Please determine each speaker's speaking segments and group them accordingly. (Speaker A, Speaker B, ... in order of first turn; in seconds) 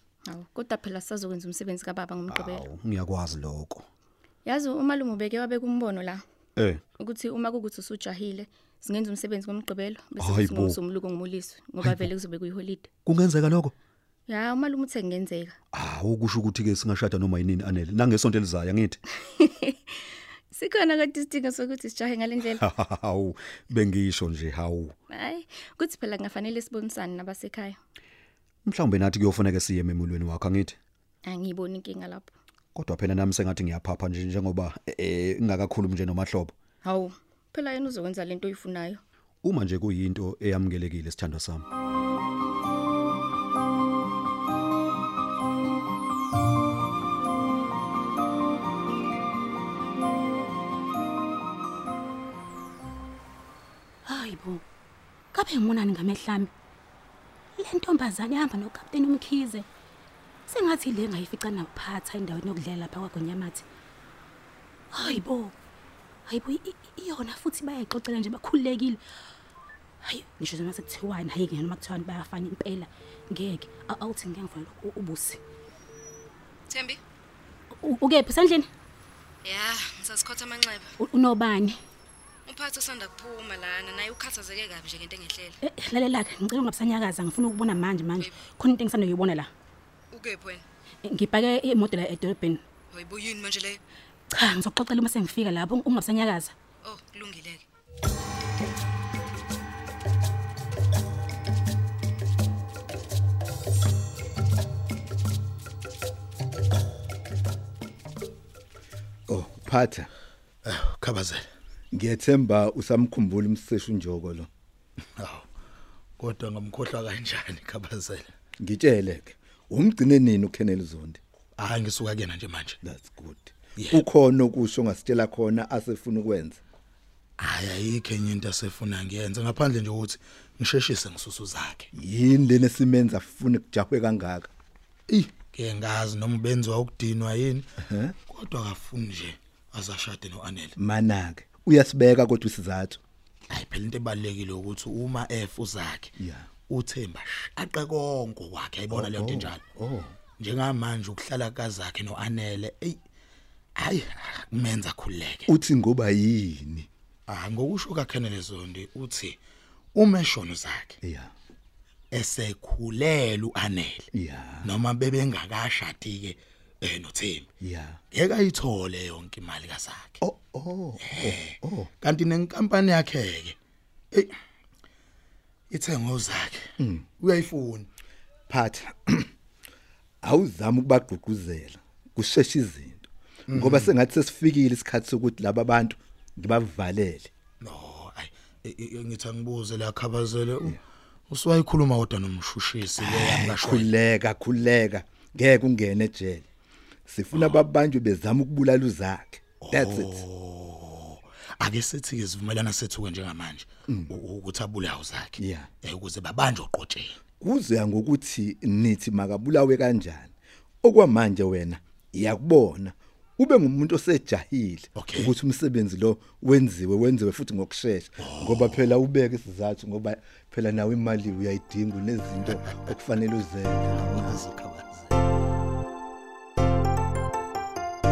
Speaker A: 0.2-2.6, 4.4-6.2, 7.0-12.9, 14.3-15.6, 19.3-22.6, 25.1-27.8, 31.2-32.3, 36.8-39.0
Speaker B: 2.2-3.8, 6.6-6.8, 10.2-10.8, 11.8-12.1, 13.0-13.7, 15.7-19.0, 22.6-24.9, 28.6-30.8, 32.7-36.5, 39.4-41.6
Speaker C: 54.0-54.6, 55.3-56.5, 57.6-59.6, 60.5-63.6, 64.9-65.5, 66.3-69.0, 70.0-75.4, 77.8-78.7, 81.0-81.8, 85.6-89.5, 91.0-92.6, 94.3-96.5
Speaker D: 76.7-77.0, 79.4-80.9, 82.5-85.6, 90.1-90.6, 92.9-93.8, 96.8-97.6
Speaker E: 109.3-110.1, 111.9-114.5, 118.6-121.2, 122.8-126.6, 131.9-134.5, 137.8-138.1, 140.8-143.0, 146.2-146.5, 148.9-150.1, 155.5-156.9, 161.0-161.3, 164.1-164.7, 167.6-168.0, 170.2-171.9, 176.8-177.1, 178.5-179.3, 180.2-187.3, 193.0-196.4, 197.1-200.2, 205.4-205.7, 207.4-224.4
Speaker F: 110.6-111.5, 115.2-115.4, 116.2-118.3, 121.6-122.8, 123.8-124.0, 127.4-131.9, 135.1-137.7, 138.3-140.7, 143.5-146.1, 146.7-149.6, 150.4-153.0, 153.8-155.5, 157.3-159.4, 159.9-160.9, 162.1-164.1, 164.6-167.5, 168.1-170.2, 171.0-173.6, 175.7-176.7, 177.2-177.9, 183.5-183.9, 187.6-190.8, 191.3-193.9, 197.3-197.6, 199.6-207.2, 214.9-215.3, 218.2-218.9, 224.4-224.9